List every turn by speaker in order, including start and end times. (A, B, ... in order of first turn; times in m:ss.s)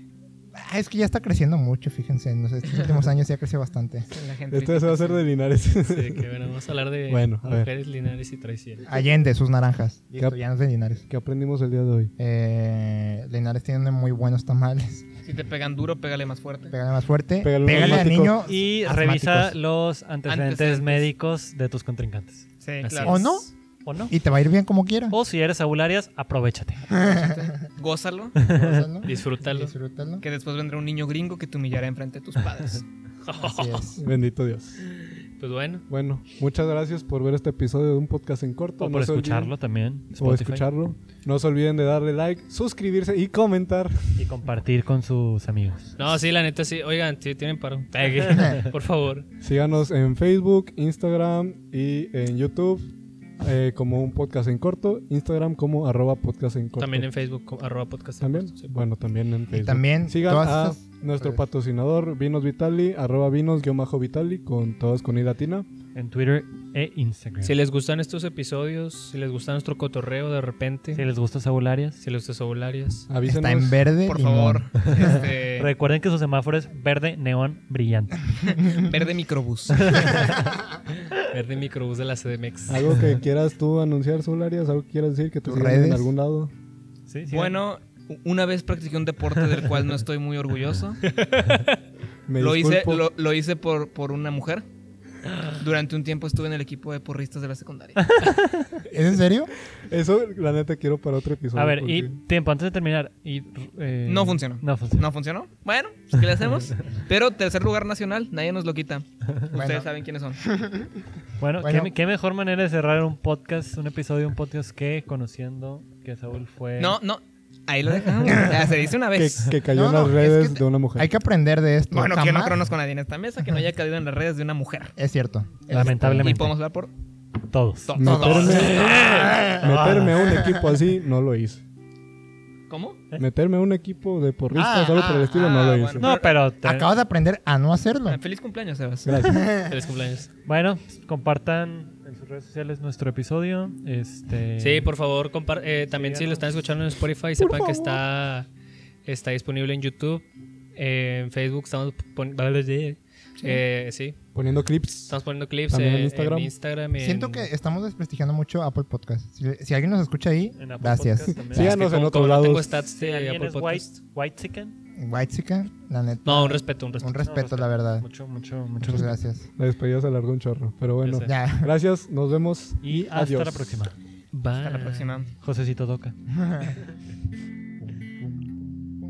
0:00.5-0:04.1 A
0:04.1-0:05.2 B
0:04.5-0:06.2 C
0:05.8-0:08.8 D
0:07.1-0:07.7 C
0:08.9-0:11.1 A
0:11.1-0:12.1 C
0:12.2-0:15.0 A
0:15.2-0:16.7 B
0:16.7-0:19.5 A
0:17.4-0:18.4 C
0:17.8-0:22.4 E
0:20.3-0:21.1 B
0:22.6-0:23.4 B
0:22.8-0:23.2 D
0:23.0-0:23.5 A
0:23.9-0:24.1 E
0:24.1-0:25.2 A
0:25.1-0:27.0 E
0:27.0-0:27.4 A
0:27.0-0:28.4 B
0:28.4-0:28.9 E
0:28.4-0:30.2 A
0:29.0-0:29.7 D
0:30.2-0:32.8 B
0:33.2-0:33.9 D
0:33.4-0:34.0 A
0:34.0-0:34.8 C
0:34.8-0:35.8 D
0:35.9-0:39.5 C
0:38.8-0:40.7 E
0:40.2-0:44.3 C
0:44.2-0:46.0 E
0:46.0-0:49.2 D
0:48.1-0:48.7 E
0:49.4-0:52.8 C
0:53.4-0:57.1 C
0:56.8-0:58.7 D
0:58.2-1:05.6 C
0:59.5-1:01.4 A
1:05.9-1:07.5 E
1:07.4-1:11.0 D
1:10.9-1:12.0 E
1:12.0-1:13.1 D
1:13.1-1:13.8 C
1:13.2-1:15.0 A
1:14.0-1:15.7 B
1:14.9-1:18.6 E
1:18.7-1:20.2 B
1:19.8-1:20.4 E
1:21.2-1:23.0 D
1:22.7-1:26.5 C
1:25.4-1:26.1 A
1:27.1-1:27.6 E
1:27.3-1:31.0 B
1:31.0-1:31.8 D
1:32.3-1:33.1 C
1:32.4-1:34.6 B
1:35.6-1:38.3 B
1:38.0-1:38.8 E
1:38.9-1:39.5 A
1:39.9-1:42.2 C
1:41.5-1:45.1 E
1:44.0-1:50.4 B
1:46.6-1:46.8 E
1:49.5-1:49.9 A
1:50.4-1:50.9 A
1:51.4-1:57.0 E
1:51.6-1:51.9 A
1:56.8-2:00.6 B
1:59.1-2:01.1 C
1:59.7-2:02.6 A
2:01.9-2:05.0 B
2:05.0-2:06.2 A
2:05.7-2:06.9 B
2:05.7-2:06.6 E
2:07.5-2:07.9 E
2:07.9-2:08.9 B
2:08.0-2:08.9 C
2:08.0-2:10.8 A
2:08.6-2:10.2 E
2:09.6-2:11.6 C
2:12.7-2:13.0 B
2:13.2-2:16.1 C
2:14.5-2:15.5 A
2:15.0-2:16.4 B
2:16.0-2:16.9 E
2:16.6-2:18.2 A
2:18.1-2:19.2 B
2:19.0-2:19.4 C
2:19.2-2:19.7 A
2:19.5-2:20.3 D
2:20.4-2:24.9 E
2:24.6-2:28.5 D
2:25.9-2:26.4 E
2:27.5-2:28.0 A
2:29.0-2:30.2 D
2:30.8-2:34.2 D
2:34.3-2:36.5 C
2:35.1-2:37.5 D
2:37.0-2:41.8 A
2:40.6-2:41.8 E
2:41.4-2:42.7 C
2:41.5-2:44.0 D
2:42.9-2:44.7 E
2:45.0-2:48.0 A
2:46.2-2:47.2 D
2:47.3-2:49.2 E
2:48.8-2:49.5 A
2:48.9-2:53.7 C
2:51.0-2:51.3 D
2:51.2-2:51.7 A
2:52.8-2:53.9 E
2:54.3-2:55.1 D
2:54.6-2:55.3 B
2:55.4-2:56.2 E
2:56.4-2:56.7 A